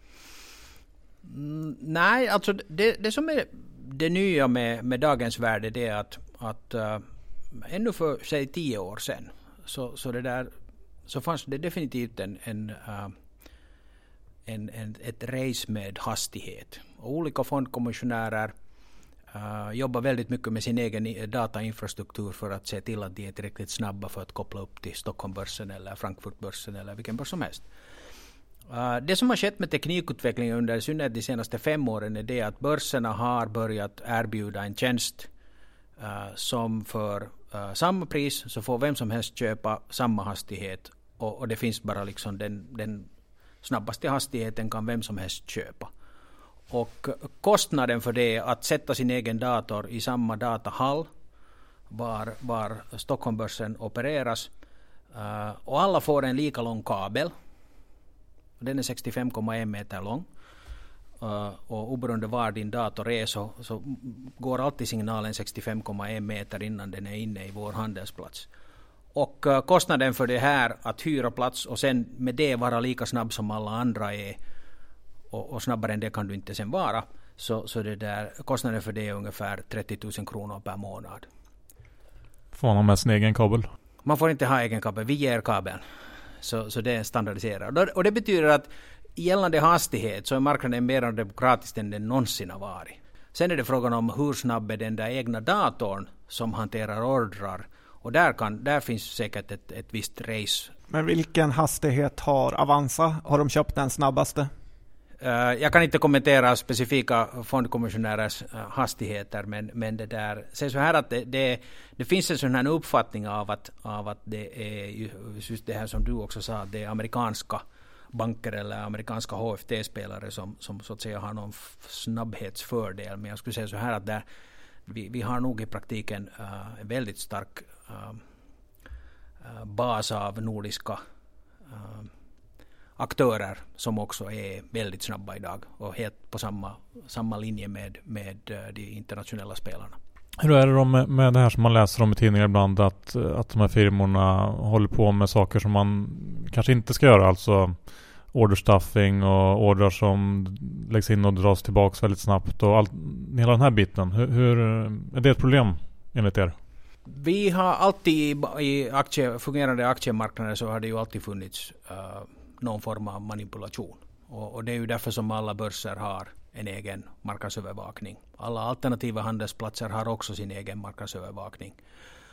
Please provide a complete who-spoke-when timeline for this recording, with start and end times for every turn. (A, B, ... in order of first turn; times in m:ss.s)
0:01.2-0:10.5 A
0:11.1-0:13.1 A
0:14.5-0:18.5 A
0:19.3-0:27.7 A
0:28.7-0:35.3 A
0:36.0-0:43.1 A
0:43.6-0:45.9 A
0:46.7-0:51.1 A
0:51.9-0:54.5 A
0:55.1-0:57.3 A
0:58.6-1:00.3 A
1:01.2-1:08.5 A
1:09.1-1:14.4 A
1:15.3-1:21.3 A
1:22.5-1:23.7 B
1:24.0-1:25.8 A
1:26.4-1:40.7 A
1:40.9-1:44.5 C
1:45.2-2:04.2 A
2:04.9-2:08.2 A
2:09.4-2:11.0 A
2:11.7-2:12.1 A
2:13.0-2:20.0 A
2:20.4-2:36.5 B
2:37.0-2:51.8 A